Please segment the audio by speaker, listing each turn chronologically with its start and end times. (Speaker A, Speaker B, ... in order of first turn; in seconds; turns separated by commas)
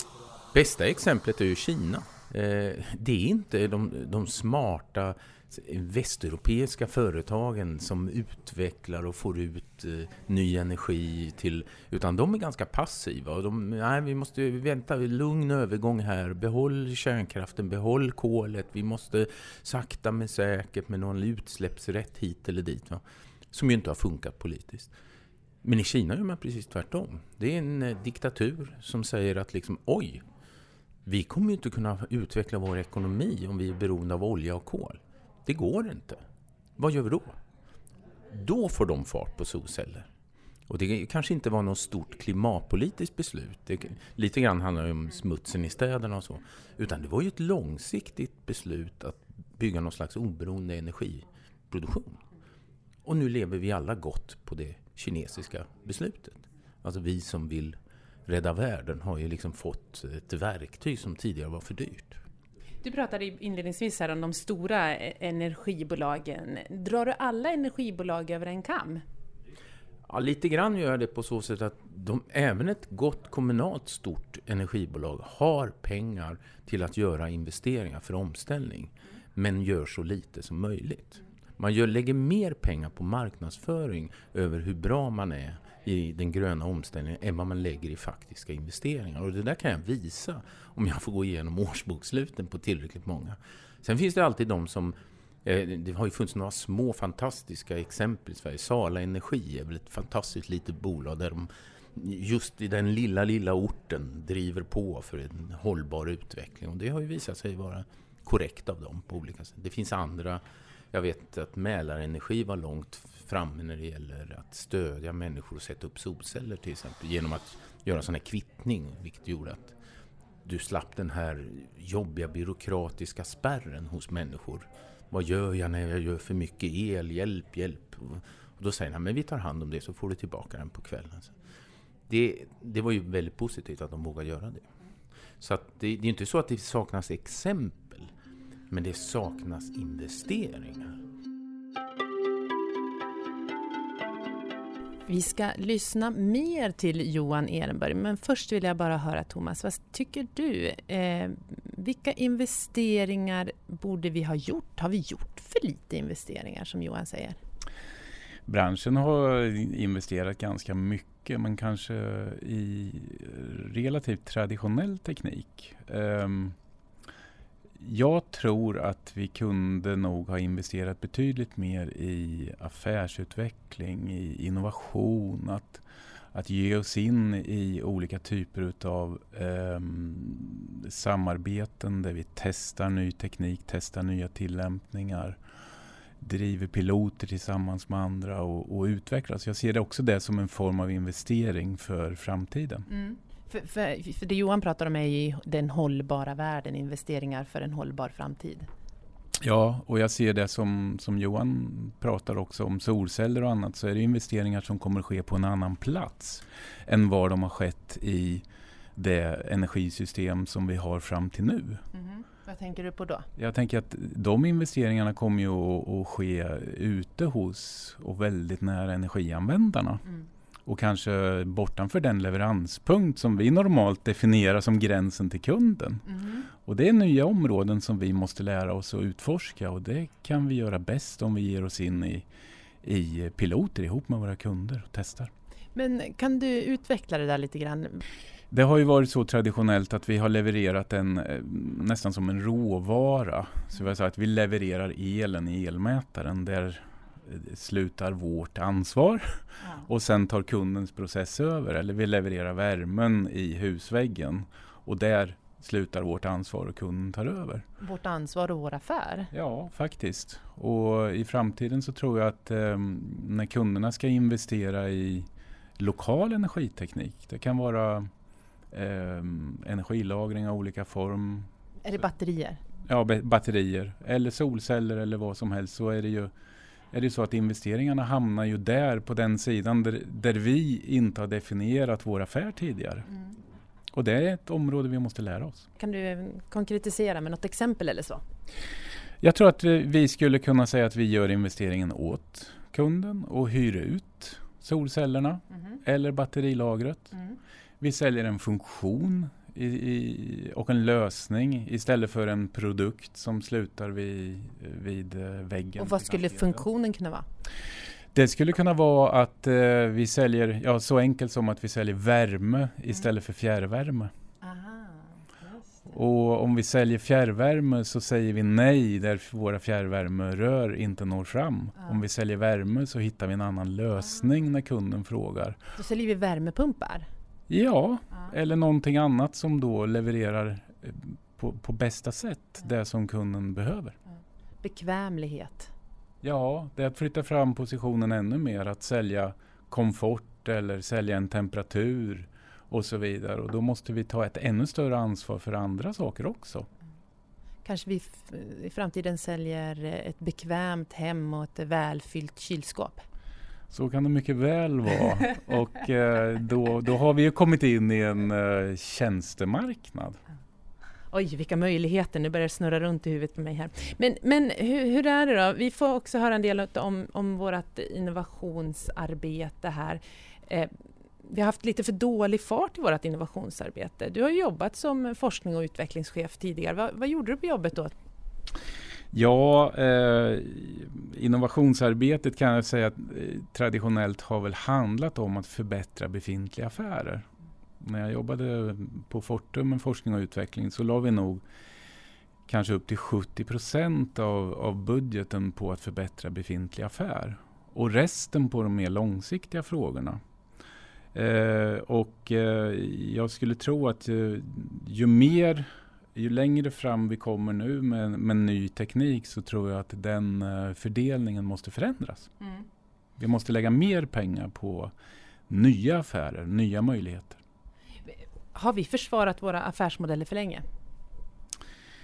Speaker A: 0.5-24.9, Speaker A: 25.6-30.2, Speaker A: 31.1-36.2, Speaker A: 36.8-37.4, Speaker A: 38.3-40.1, Speaker A: 40.7-52.2, Speaker A: 53.0-57.8, Speaker A: 58.3-62.2, Speaker B: 62.8-69.0, Speaker A: 70.1-119.8, Speaker A: 120.5-131.3, Speaker A: 132.1-134.7, Speaker A: 135.4-138.1, Speaker A: 138.7-141.0, Speaker B: 145.1-157.4, Speaker C: 158.5-166.6, Speaker C: 167.8-185.4, Speaker C: 186.2-192.9, Speaker B: 192.9-198.7, Speaker C: 199.4-208.4, Speaker C: 209.0-211.8, Speaker B: 211.9-213.3, Speaker C: 213.4-220.0, Speaker C: 220.7-226.1, Speaker B: 226.1-226.5, Speaker C: 226.6-232.3, Speaker C: 232.8-235.3, Speaker B: 235.8-238.0, Speaker C: 238.5-257.6, Speaker B: 257.8-259.3, Speaker C: 259.3-268.1, Speaker C: 268.7-271.5, Speaker B: 271.9-272.6, Speaker C: 272.9-276.3, Speaker C: 276.9-283.1, Speaker C: 283.9-285.7, Speaker B: 285.8-288.2, Speaker C: 289.2-297.2, Speaker C: 297.8-306.6, Speaker B: 305.8-307.3, Speaker C: 308.1-314.1, Speaker B: 314.4-315.9, Speaker C: 315.9-325.6, Speaker B: 325.8-327.1, Speaker C: 327.5-334.0, Speaker B: 334.6-335.7, Speaker C: 336.2-346.7, Speaker B: 347.6-353.0, Speaker C: 353.7-360.2, Speaker B: 361.1-370.7, Speaker B: 371.2-377.9, Speaker C: 379.1-387.3, Speaker C: 387.8-391.4, Speaker C: 392.5-400.2, Speaker C: 401.1-412.3, Speaker C: 413.2-414.9, Speaker C: 415.5-417.4, Speaker B: 418.1-420.6